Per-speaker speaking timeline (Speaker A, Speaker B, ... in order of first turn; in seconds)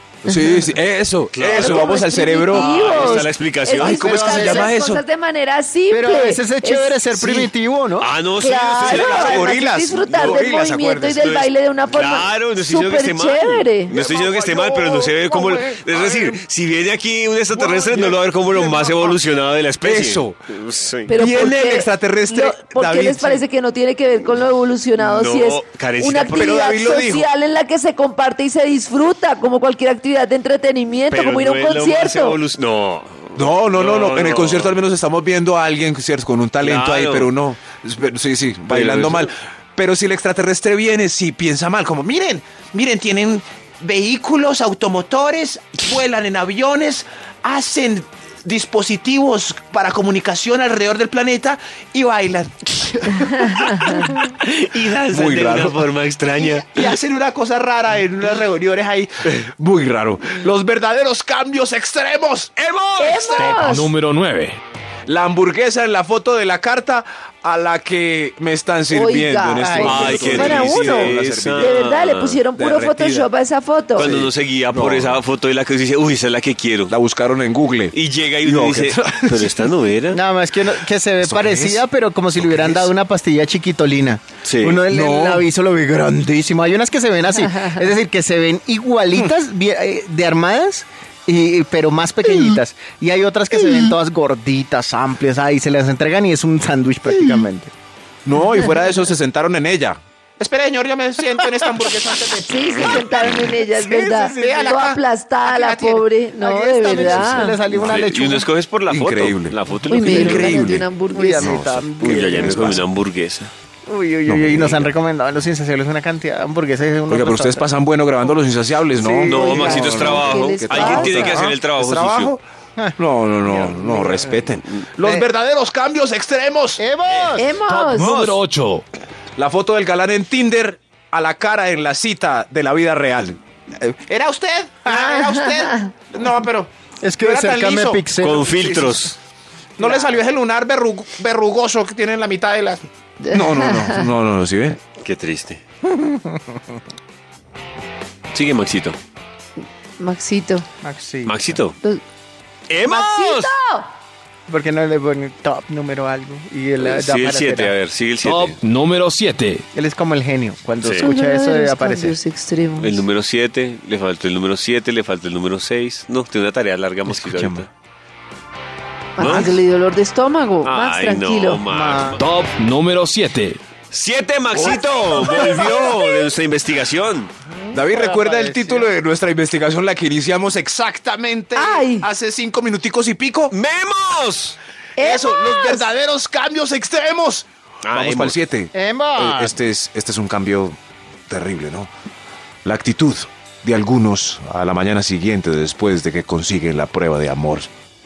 Speaker A: 0.2-3.1, 3.8-5.0, 7.1-7.5, 8.8-11.5, 13.9-16.4, 17.5-19.2, 19.8-20.4, 21.1-23.4, 26.3-27.3, 33.4-54.2, 55.1-55.8, 56.4-62.5, 65.1-71.8, 72.5-73.3, 74.0-75.2, 76.9-79.7, 81.2-82.9, 84.9-85.5, 98.2-106.0, 108.9-112.8, 114.2-114.9, 117.1-122.4, 123.0-126.8, 129.4-139.1, 139.8-144.8, 169.2-169.6, 174.6-175.2, 177.7-183.6, 185.0-190.8, 191.3-191.9, 192.6-197.7
Speaker B: 0.2-0.7, 1.4-7.0, 8.4-14.0, 21.1-32.4, 53.2-53.6, 63.0-63.9, 68.9-74.1, 102.5-107.6, 109.9-111.7, 119.2-121.4, 127.3-128.2, 135.5-135.9, 143.2-144.1, 150.0-150.6, 152.9-153.9, 161.0-163.0, 169.2-171.7, 174.5-176.3, 181.6-182.1, 185.0-185.9
Speaker C: 1.3-4.0, 8.0-10.5, 11.1-21.4, 25.0-26.7, 31.1-34.8, 36.6-37.3, 38.7-39.3, 53.9-56.9, 62.6-63.7, 69.8-72.4, 74.0-76.9, 77.9-80.2, 84.4-84.9, 107.0-110.8, 112.0-113.5, 119.3-122.3, 127.1-127.4, 128.0-128.3, 138.2-139.2, 145.0-145.6, 148.3-149.0, 151.2-151.8, 152.7-153.5, 156.8-158.6, 160.8-161.1, 162.8-167.7, 169.2-169.5, 170.6-172.2, 173.9-177.3, 183.5-184.6, 187.9-188.4
Speaker D: 2.8-3.2, 3.8-4.7, 5.9-8.1, 69.6-70.6, 80.1-97.7, 106.4-108.5, 111.1-112.8, 113.9-117.7, 119.0-120.3, 121.1-121.5, 122.8-125.3, 126.8-127.6, 134.9-135.2, 137.0-138.5, 139.8-140.2, 145.9-146.4, 150.8-151.6, 154.5-157.8, 159.7-162.2, 167.1-167.6, 171.7-172.2, 177.8-178.9, 188.7-189.6
Speaker E: 63.4-64.6, 127.6-128.8, 158.2-159.6, 172.1-173.6